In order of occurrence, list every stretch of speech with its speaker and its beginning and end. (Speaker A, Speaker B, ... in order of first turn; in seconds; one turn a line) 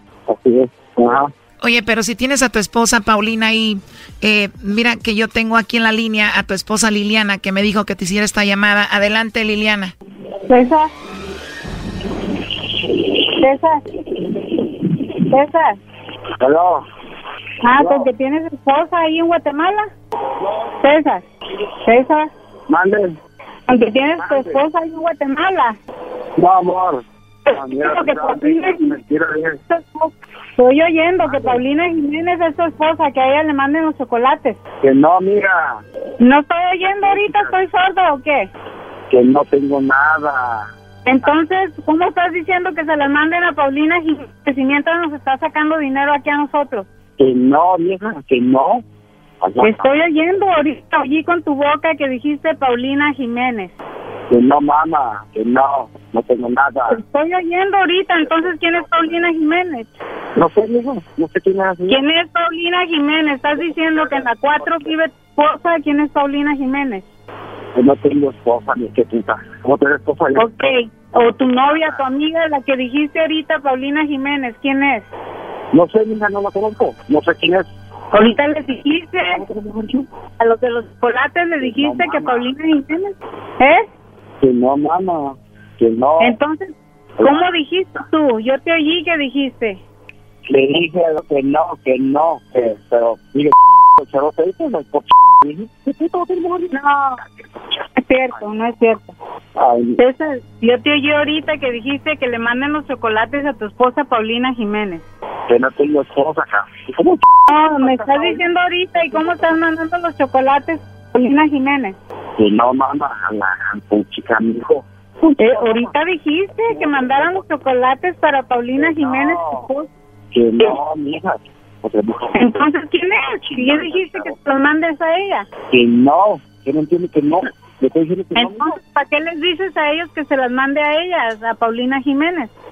Speaker A: 0.3-1.3
Speaker B: 1.6-9.9
Speaker C: 10.5-10.9
Speaker C: 13.3-13.8
Speaker C: 15.3-15.8
Speaker A: 16.4-16.8
Speaker C: 17.6-19.9
Speaker A: 17.8-18.1
Speaker C: 20.8-21.2
Speaker C: 21.8-22.3
Speaker A: 22.7-23.2
Speaker C: 23.7-25.8
Speaker A: 24.3-24.6
Speaker A: 26.4-29.6
Speaker C: 27.4-28.9
Speaker C: 29.7-34.6
Speaker A: 34.8-35.8
Speaker C: 36.2-38.5
Speaker A: 39.1-40.7
Speaker C: 41.0-46.9
Speaker A: 47.2-48.8
Speaker A: 49.4-49.9
Speaker C: 49.6-53.7
Speaker A: 54.3-57.0
Speaker C: 56.9-59.9
Speaker A: 60.4-62.0
Speaker C: 61.9-67.0
Speaker A: 67.7-70.4
Speaker C: 70.3-75.1
Speaker A: 75.7-77.7
Speaker C: 78.1-79.4
Speaker A: 79.3-80.0
Speaker C: 80.4-83.9
Speaker A: 81.6-82.4
Speaker A: 84.4-86.4
Speaker C: 86.2-89.8
Speaker A: 90.5-96.7
Speaker C: 96.7-97.2
Speaker C: 98.0-99.1
Speaker A: 99.5-100.0
Speaker C: 100.0-105.0
Speaker A: 105.5-107.2
Speaker C: 107.5-112.0
Speaker A: 112.4-115.9
Speaker C: 115.3-119.9
Speaker A: 116.8-117.2
Speaker A: 118.8-119.7
Speaker A: 120.3-122.4
Speaker C: 122.3-125.5
Speaker A: 123.5-124.3
Speaker A: 125.7-128.7
Speaker C: 128.3-132.5